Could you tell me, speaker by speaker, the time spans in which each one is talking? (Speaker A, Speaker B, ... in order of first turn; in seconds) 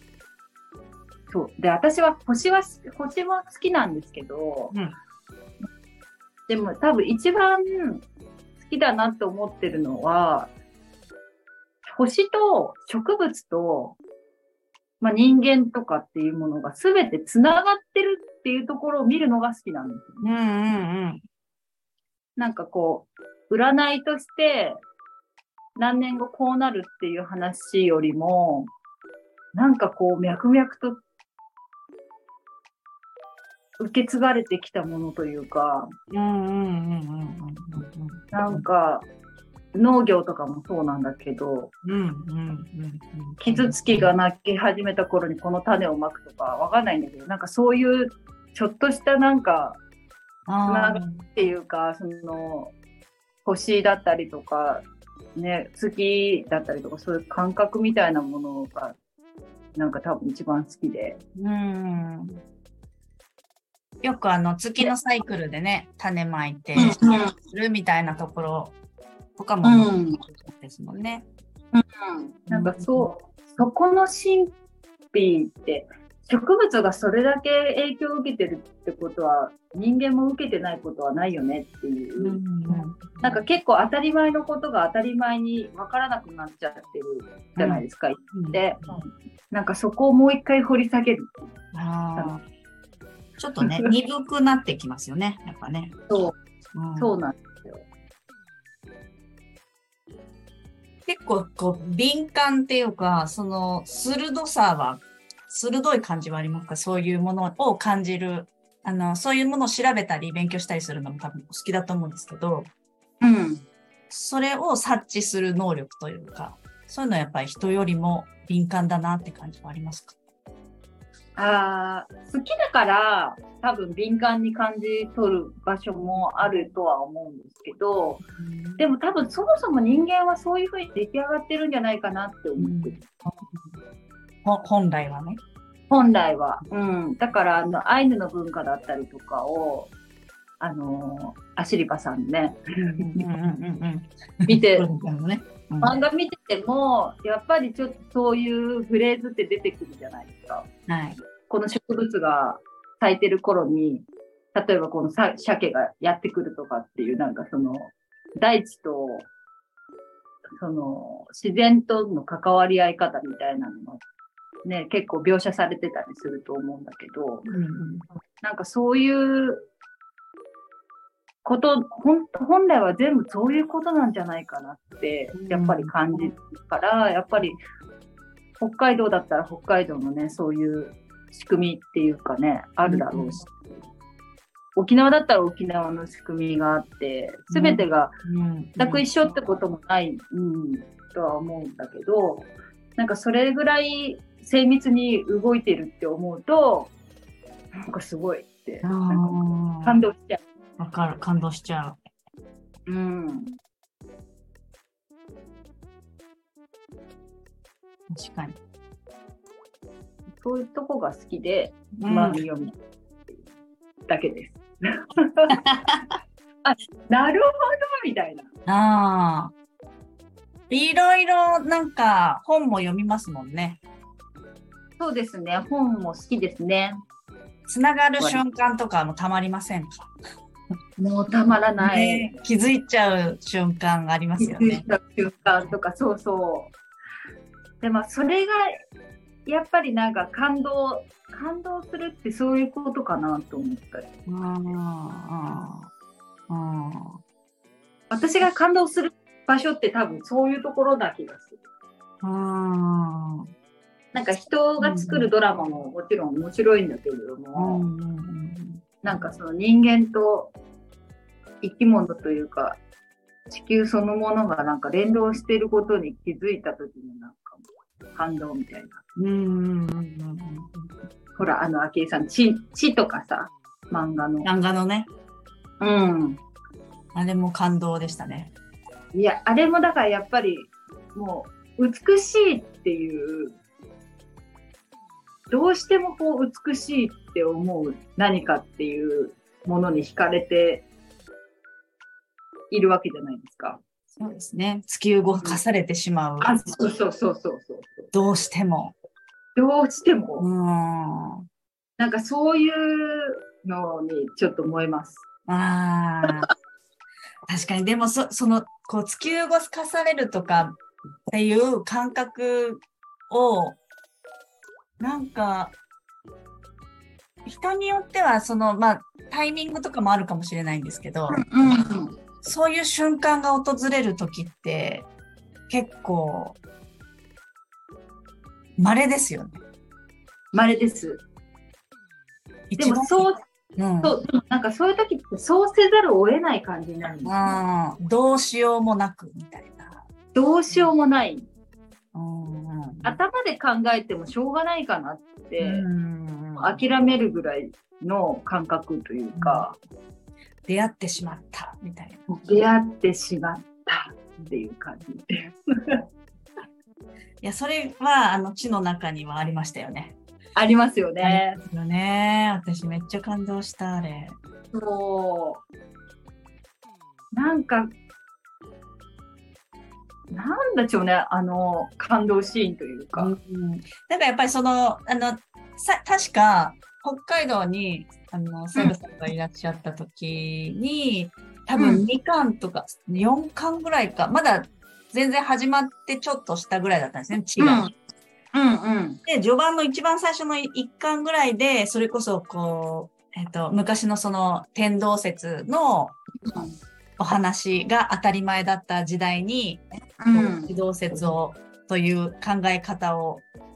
Speaker A: 1.3-4.8, 6.5-8.0, 8.6-10.5, 11.8-14.0, 15.0-20.2, 22.4-24.8, 25.8-28.7, 29.5-31.0, 33.8-35.9, 38.3-39.1, 39.7-41.7, 43.4-49.8, 50.7-52.7, 53.5-59.0, 59.8-61.2, 66.8-67.3, 69.6-70.2, 71.7-74.5, 75.1-82.4, 83.2-91.5, 93.6-93.9, 96.1-96.4, 97.0-97.9, 113.2-113.7, 121.4-128.2, 128.8-133.0, 135.9-139.9, 140.6-143.3, 144.5-144.9, 145.8-150.7, 151.5-159.3, 160.6-164.0, 164.7-167.5, 168.4-169.7, 171.4-177.6, 178.6-183.8, 184.8-188.1, 188.8-196.9, 197.8-200.4, 202.9-203.6, 210.4-212.7, 214.1-215.6, 216.6-218.5, 225.0-227.0, 231.0-232.3, 234.4-236.7, 237.8-238.8, 239.5-244.1, 248.1-251.6, 254.1-257.9, 259.0-260.5, 261.6-262.8, 263.5-267.6, 268.1-269.0, 271.4-274.5, 275.8-276.4, 279.1-283.6, 285.5-290.9, 292.7-293.8, 296.4-298.1, 299.6-300.5, 302.0-305.2, 321.3-322.2, 330.5-331.2, 332.8-333.4, 334.0-337.6, 340.3-341.4, 343.0-345.9, 346.6-349.8, 352.3-356.0, 360.6-361.6, 364.7-365.6, 367.3-367.9, 370.3-373.3, 381.8-382.1, 387.6-387.9, 388.5-389.2, 396.5-396.8, 400.2-400.7
Speaker B: 20.2-21.2, 36.1-38.6, 41.8-44.1, 50.5-51.3, 61.4-62.4, 64.0-68.8, 69.4-71.3, 72.5-73.1, 82.2-83.3, 87.6-89.0, 91.7-92.4, 93.4-96.0, 96.8-97.1, 101.1-112.7, 114.1-120.2, 128.2-128.8, 132.6-133.7, 134.4-135.4, 142.8-145.9, 150.9-151.2, 167.5-168.1, 175.3-176.3, 182.8-183.4, 187.5-189.1, 198.8-200.0, 200.8-202.0, 208.1-208.6, 212.0-212.4, 215.5-216.0, 218.7-219.5, 220.7-223.8, 227.7-230.1, 231.8-234.8, 244.3-245.9, 246.5-247.2, 252.2-253.5, 254.8-255.3, 257.6-259.2, 269.2-270.9, 274.4-275.1, 277.1-278.5, 294.2-296.6, 298.1-298.9, 300.4-301.4, 305.5-306.5, 307.5-310.8, 311.3-313.8, 315.0-315.8, 317.4-321.5, 322.4-325.1, 325.7-326.6, 328.8-329.6, 332.7-334.1, 337.2-340.1, 342.1-343.2, 345.6-346.8, 349.4-349.7, 350.7-352.3, 357.4-360.2, 361.2-364.4, 373.2-387.9, 389.3-396.2, 397.2-403.4